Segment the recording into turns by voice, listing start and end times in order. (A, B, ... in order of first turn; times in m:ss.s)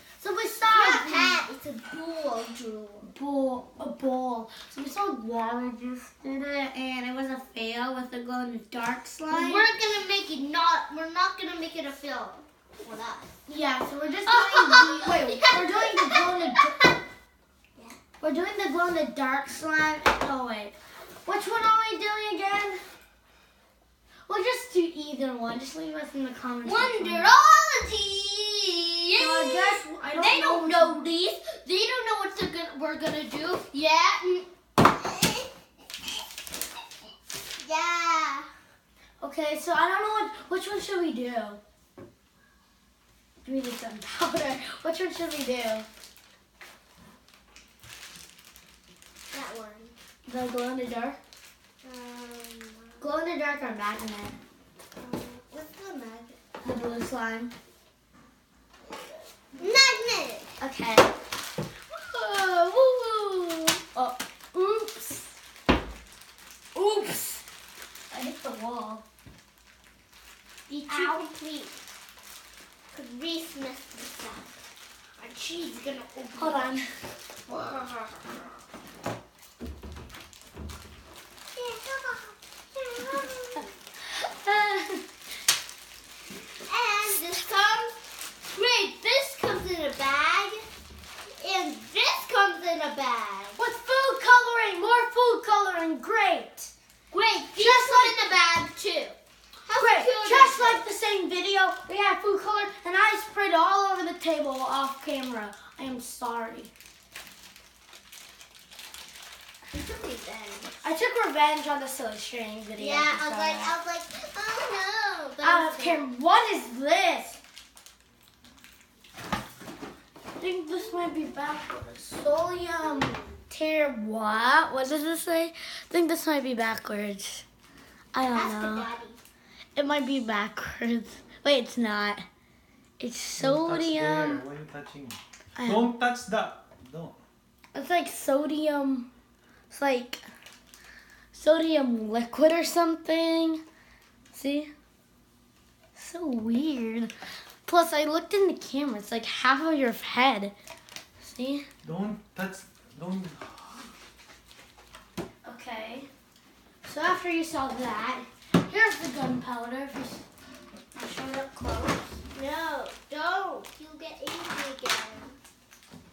0:00.2-0:01.4 A
0:00.7-0:03.1 B
0:03.1-0:09.7 A
0:09.3-0:13.4 B
0:13.5-0:16.8 A
0:14.3-0:16.9 B
0:18.2-0:20.8 A
0:21.3-0:22.8 A
0:24.3-0:27.3 A
0:26.6-0:35.5 B
0:29.2-0:31.0 A
0:37.6-0:38.5 B
0:39.2-0:41.6 A
0:43.4-0:45.9 A
0:49.3-0:50.0 B
0:50.3-0:51.2 A
0:51.8-0:53.1 B
0:53.0-0:54.4 A
0:55.0-0:56.9 B
0:56.6-0:57.5 A
0:59.6-1:00.6 B
1:00.6-1:01.1 A
1:01.9-1:05.4 A
1:06.8-1:07.4 A
1:08.1-1:09.0 A
1:10.7-1:11.8 B
1:10.9-1:11.2 A
1:12.9-1:14.5 B
1:15.2-1:16.8 B
1:16.4-1:17.0 A
1:17.5-1:18.1 B
1:21.5-1:23.7 B
1:24.0-1:25.1 A
1:26.6-1:30.6 B
1:31.4-1:33.6 B
1:33.6-1:36.7 A
1:37.1-1:39.2 B
1:37.6-1:38.2 A
1:39.7-1:40.8 B
1:39.7-1:46.7 A
1:49.7-1:50.8 B
1:50.8-1:53.8 A
1:52.8-1:56.0 B
1:55.4-1:57.4 A
2:00.4-2:07.5 A
2:02.9-2:03.3 B
2:08.1-2:08.9 A
2:08.3-2:09.2 B
2:09.8-2:12.3 A
2:13.0-2:14.4 A
2:13.4-2:17.2 C
2:17.7-2:19.1 A
2:19.7-2:20.2 A
2:21.3-2:23.6 A
2:24.3-2:24.7 A
2:26.0-2:27.1 A
2:27.7-2:30.6 A
2:31.2-2:31.7 A
2:31.8-2:33.9 C
2:35.4-2:36.1 A
2:36.8-2:40.2 A
2:41.0-2:42.2 A
2:42.3-2:45.4 B